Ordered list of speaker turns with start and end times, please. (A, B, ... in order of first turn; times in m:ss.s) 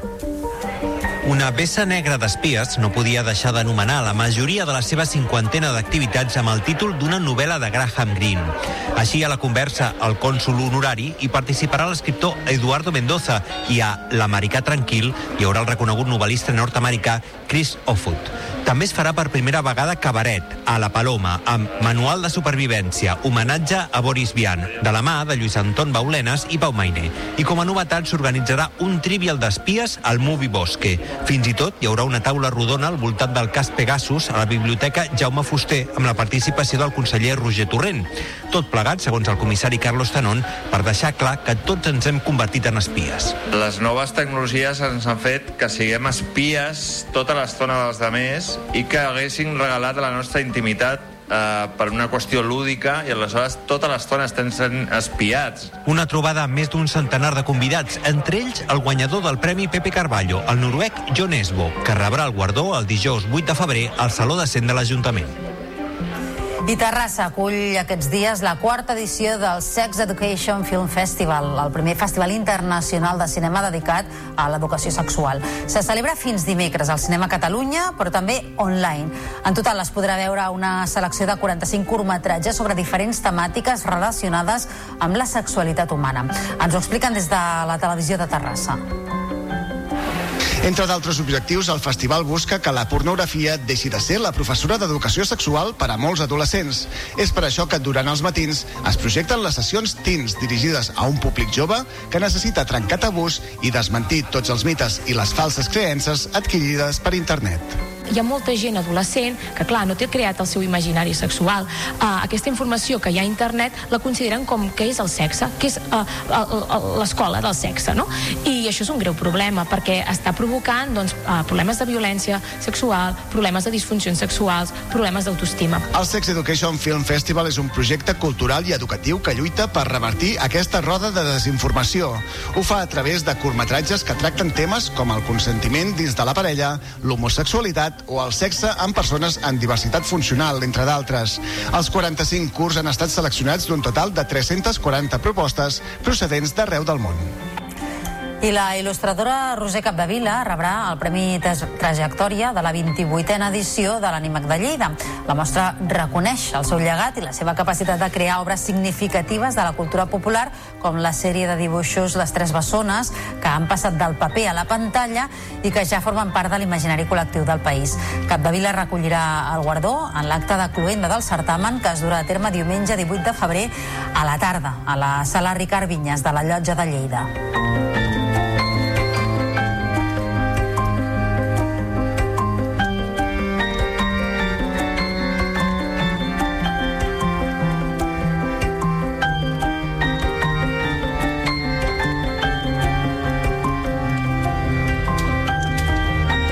0:01.2-0:43.4 A
0:43.5-0:55.7 B
0:55.8-1:05.3 A
1:06.7-1:28.8 C
1:30.6-1:47.8 D
1:48.1-2:05.8 E
2:05.9-2:27.3 D
2:28.4-2:57.3 C